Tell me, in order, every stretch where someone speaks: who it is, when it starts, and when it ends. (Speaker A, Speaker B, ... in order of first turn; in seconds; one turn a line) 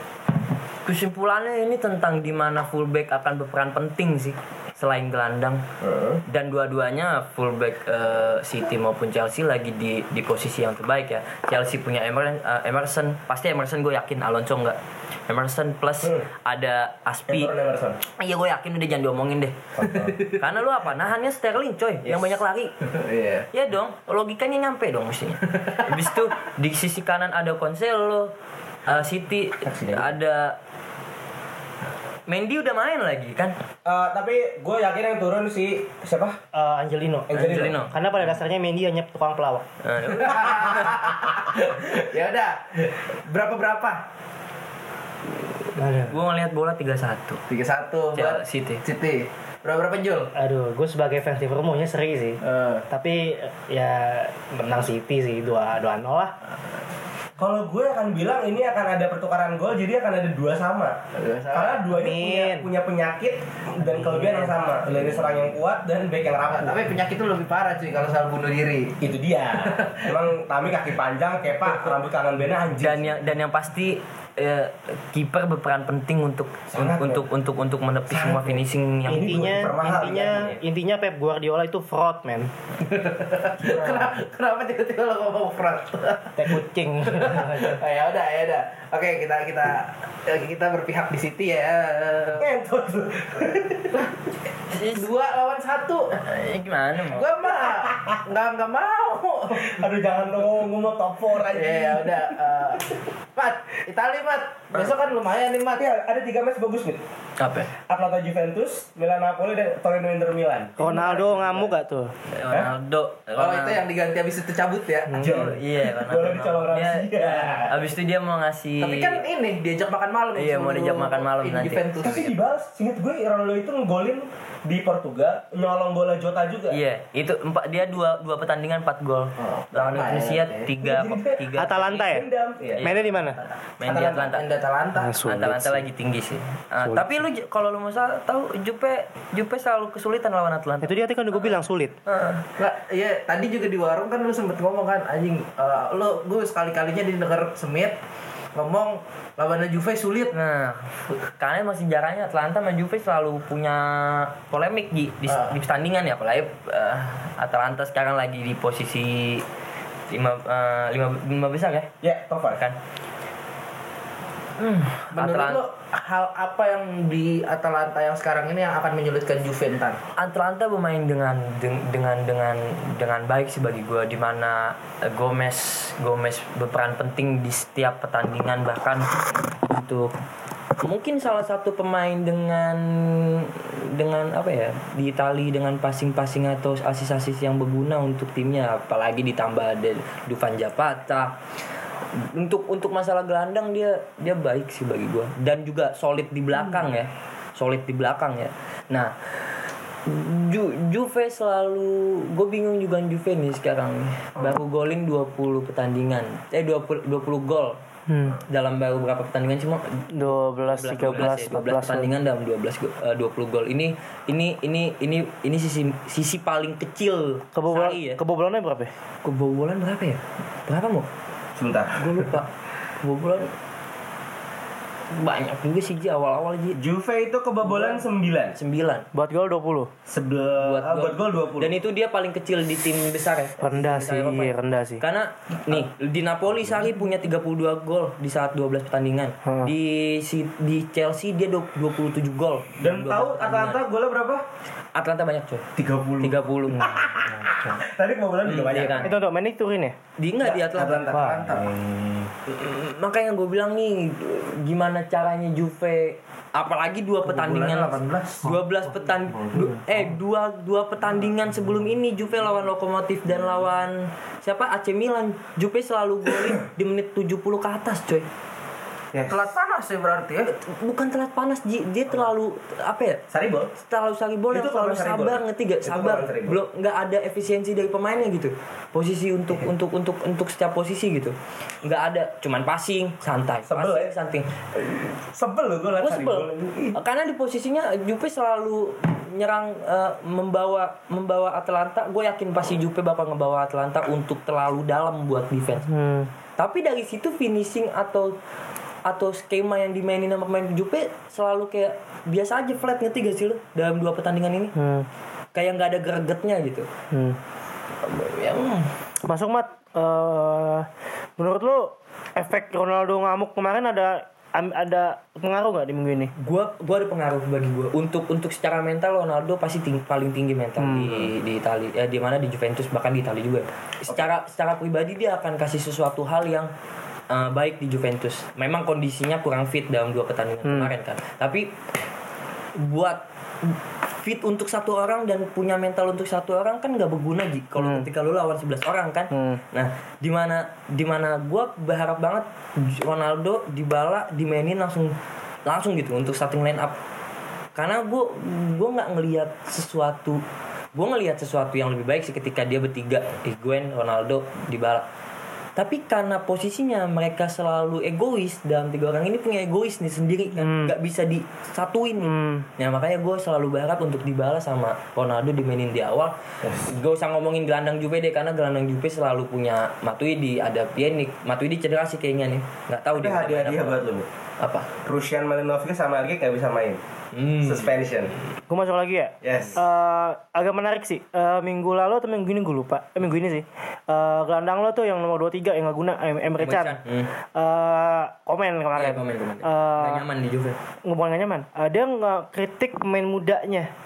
Speaker A: 0.8-5.6
Speaker B: 5.8-6.2
Speaker A: 6.3-14.8
Speaker A: 15.3-17.5
Speaker B: 17.3-18.0
Speaker A: 18.1-19.6
Speaker B: 19.8-20.2
Speaker A: 20.2-22.7
Speaker C: 22.8-23.5
Speaker A: 23.5-28.3
Speaker A: 28.9-30.6
Speaker B: 29.6-30.1
Speaker A: 32.3-33.6
Speaker B: 33.8-36.4
Speaker D: 36.5-37.3
Speaker B: 37.3-37.8
Speaker A: 37.3-37.9
Speaker D: 37.9-39.6
Speaker A: 39.8-40.9
Speaker C: 40.1-44.0
Speaker D: 45.8-46.1
Speaker A: 46.0-47.4
Speaker C: 47.5-50.3
Speaker A: 48.1-48.8
Speaker D: 50.3-56.3
Speaker C: 52.4-52.9
Speaker B: 57.4-61.0
Speaker C: 61.1-61.9
Speaker B: 61.5-66.8
Speaker D: 61.9-62.7
Speaker D: 64.0-64.3
Speaker C: 66.5-69.0
Speaker B: 69.0-73.1
Speaker C: 69.6-70.2
Speaker A: 72.8-79.7
Speaker B: 76.7-77.2
Speaker B: 78.1-80.6
Speaker D: 79.0-82.5
Speaker C: 82.8-86.5
Speaker D: 86.3-87.8
Speaker C: 87.1-92.5
Speaker B: 92.4-94.0
Speaker A: 94.7-95.1
Speaker C: 94.7-96.2
Speaker A: 96.2-97.2
Speaker C: 97.0-99.8
Speaker B: 97.6-98.2
Speaker B: 99.5-102.3
Speaker C: 101.5-105.8
Speaker B: 105.8-107.0
Speaker A: 107.4-107.7
Speaker B: 107.8-111.7
Speaker D: 110.8-112.1
Speaker A: 112.3-113.8
Speaker C: 113.4-115.3
Speaker B: 115.1-117.8
Speaker A: 115.2-119.2
Speaker C: 118.8-122.3
Speaker A: 120.3-122.1
Speaker B: 122.0-126.8
Speaker A: 126.7-132.0
Speaker C: 129.4-130.7
Speaker B: 130.8-132.9
Speaker D: 131.6-132.2
Speaker A: 132.8-134.4
Speaker D: 132.8-133.4
Speaker B: 133.8-134.3
Speaker C: 133.9-135.2
Speaker D: 134.9-135.8
Speaker A: 135.2-140.9
Speaker D: 136.8-137.2
Speaker D: 140.8-141.9
Speaker A: 142.1-142.4
Speaker C: 142.6-148.0
Speaker C: 148.5-150.3
Speaker A: 150.3-159.4
Speaker C: 155.3-155.5
Speaker A: 160.1-161.9
Speaker B: 162.0-162.6
Speaker A: 164.6-165.6
Speaker C: 165.1-170.0
Speaker A: 170.2-180.1
Speaker A: 180.8-191.3
Speaker A: 192.2-199.5
Speaker A: 200.1-207.8
Speaker D: 208.1-208.3
Speaker A: 208.4-218.2
Speaker D: 210.1-212.1
Speaker D: 217.5-218.9
Speaker A: 219.2-221.1
Speaker B: 221.6-222.1
Speaker A: 221.9-222.5
Speaker A: 223.0-223.5
Speaker A: 225.1-226.8
Speaker B: 226.7-228.6
Speaker A: 228.6-229.1
Speaker D: 229.1-229.9
Speaker B: 230.1-231.7
Speaker A: 230.6-243.8
Speaker D: 233.6-235.0
Speaker B: 242.8-244.4
Speaker A: 244.9-245.6
Speaker B: 245.8-249.1
Speaker A: 246.2-247.0
Speaker D: 246.7-247.8
Speaker A: 248.4-249.1
Speaker D: 249.0-249.9
Speaker A: 250.2-251.2
Speaker B: 250.4-251.7
Speaker D: 251.1-252.3
Speaker A: 252.5-268.2
Speaker C: 257.2-258.4
Speaker D: 259.5-259.8
Speaker B: 269.1-269.4
Speaker C: 269.3-270.5
Speaker A: 270.6-273.2
Speaker B: 273.3-273.7
Speaker A: 273.8-284.5
Speaker B: 274.5-276.6
Speaker B: 283.6-284.1
Speaker B: 284.8-287.0
Speaker A: 286.0-295.9
Speaker D: 295.9-296.3
Speaker A: 296.6-298.3
Speaker A: 299.0-304.7
Speaker D: 304.7-305.1
Speaker A: 305.5-306.9
Speaker D: 307.1-307.4
Speaker A: 308.0-308.9
Speaker D: 309.2-310.9
Speaker D: 311.4-316.3
Speaker A: 316.4-326.7
Speaker D: 320.8-321.2
Speaker A: 327.3-331.7
Speaker D: 330.6-330.9
Speaker A: 332.8-345.1
Speaker D: 337.8-338.1
Speaker D: 339.3-339.6
Speaker A: 345.6-346.9
Speaker A: 347.8-350.4
Speaker A: 350.9-355.0
Speaker A: 355.8-366.3
Speaker D: 360.6-360.9
Speaker D: 362.2-362.6
Speaker B: 366.6-366.9
Speaker A: 366.9-373.9
Speaker B: 373.1-374.2
Speaker A: 374.6-374.9
Speaker B: 375.0-377.0
Speaker A: 377.3-377.9
Speaker B: 377.6-378.3
Speaker D: 378.7-387.0
Speaker B: 379.4-379.8
Speaker A: 386.6-387.3
Speaker D: 387.5-390.2
Speaker A: 388.9-390.8
Speaker D: 391.0-393.9